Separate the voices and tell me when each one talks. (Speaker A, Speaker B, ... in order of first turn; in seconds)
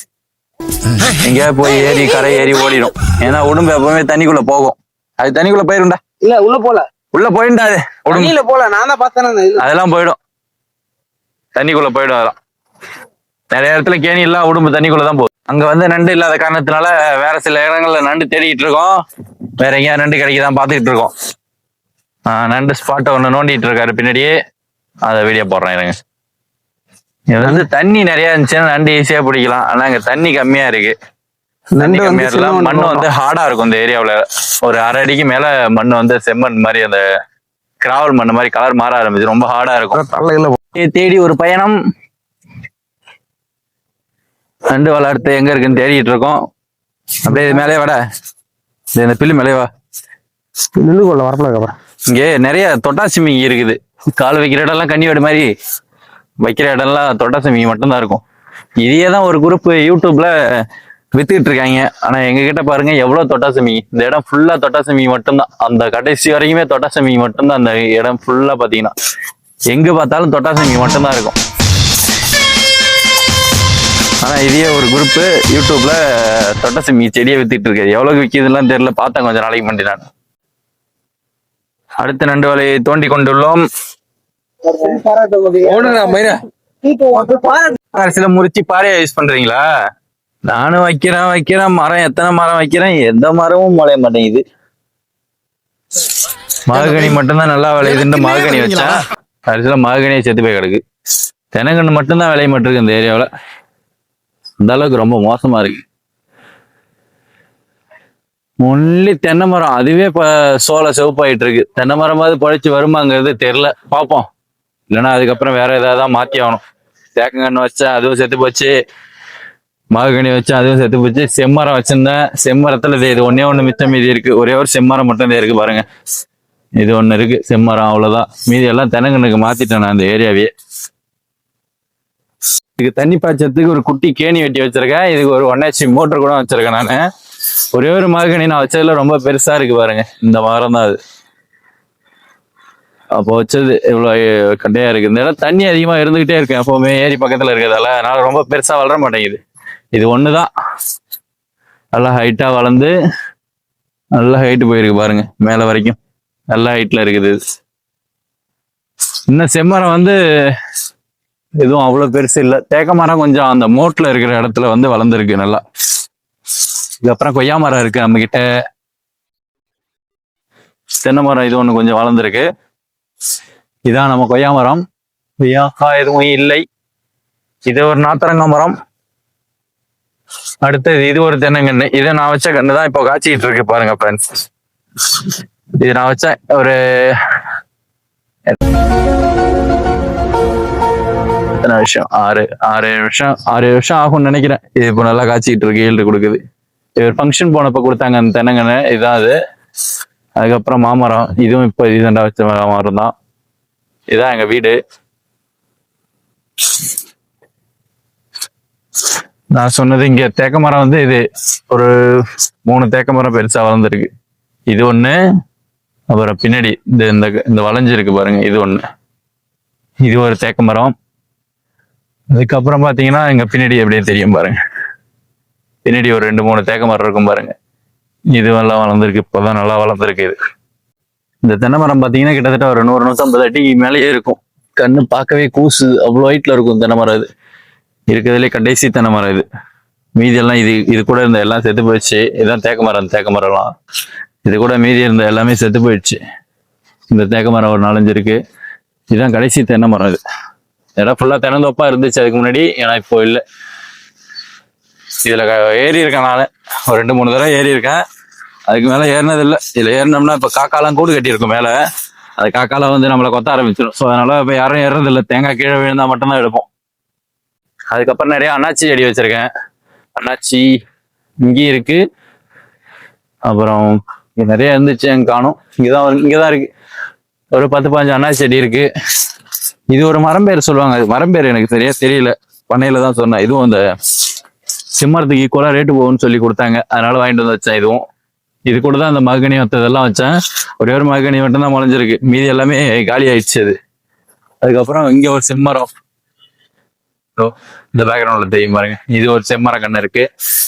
Speaker A: 1.0-6.0, 7.1-8.3, 9.6-10.2, 11.6-12.3, 13.5-18.9, 19.6-21.1, 22.3-24.3, 25.1-25.9, 27.3-30.9, 31.8-37.0, 37.8-40.1, 40.8-41.7, 44.7-46.4, 47.2-48.0, 49.0-49.7, 52.1-55.5, 56.4-58.2, 58.8-60.3, 61.1-68.9, 69.7-71.3, 74.2-80.0, 82.0-83.6, 87.9-89.6, 90.5-94.4, 96.7-100.8, 101.5-103.3, 104.6-105.8, 108.6-114.2, 114.9-116.6, 117.2-118.7, 119.9-125.8, 126.8-130.5, 132.8-137.0, 137.7-141.0, 143.2-149.4, 149.9-150.5, 151.9-152.9, 154.2-156.0, 156.5-157.4, 159.3-160.2, 161.6-165.6, 167.0-168.4, 171.0-172.4, 173.9-174.8, 175.4-176.6, 177.7-178.7, 180.6-184.2, 185.0-187.2, 191.6-196.4, 197.0-199.3, 200.4-203.1, 204.1-204.8, 209.5-214.1, 214.7-215.2, 216.1-218.8, 220.1-220.9, 222.3-224.6, 225.8-227.5, 228.3-230.4, 231.4-237.3, 238.1-239.4, 240.2-243.7, 244.4-246.2, 247.1-248.4, 249.1-250.2, 251.0-253.4, 255.2-258.0, 258.7-261.7, 262.4-266.6, 267.9-269.5, 270.2-270.6, 271.4-272.0, 273.5-276.7, 277.5-278.9, 279.9-283.9, 285.0-288.0, 288.7-293.8, 294.6-295.9, 297.4-300.2
Speaker B: 6.2-6.8, 8.1-9.6, 85.6-86.3
Speaker C: 31.8-32.7, 50.8-51.7, 84.7-86.2, 86.9-87.7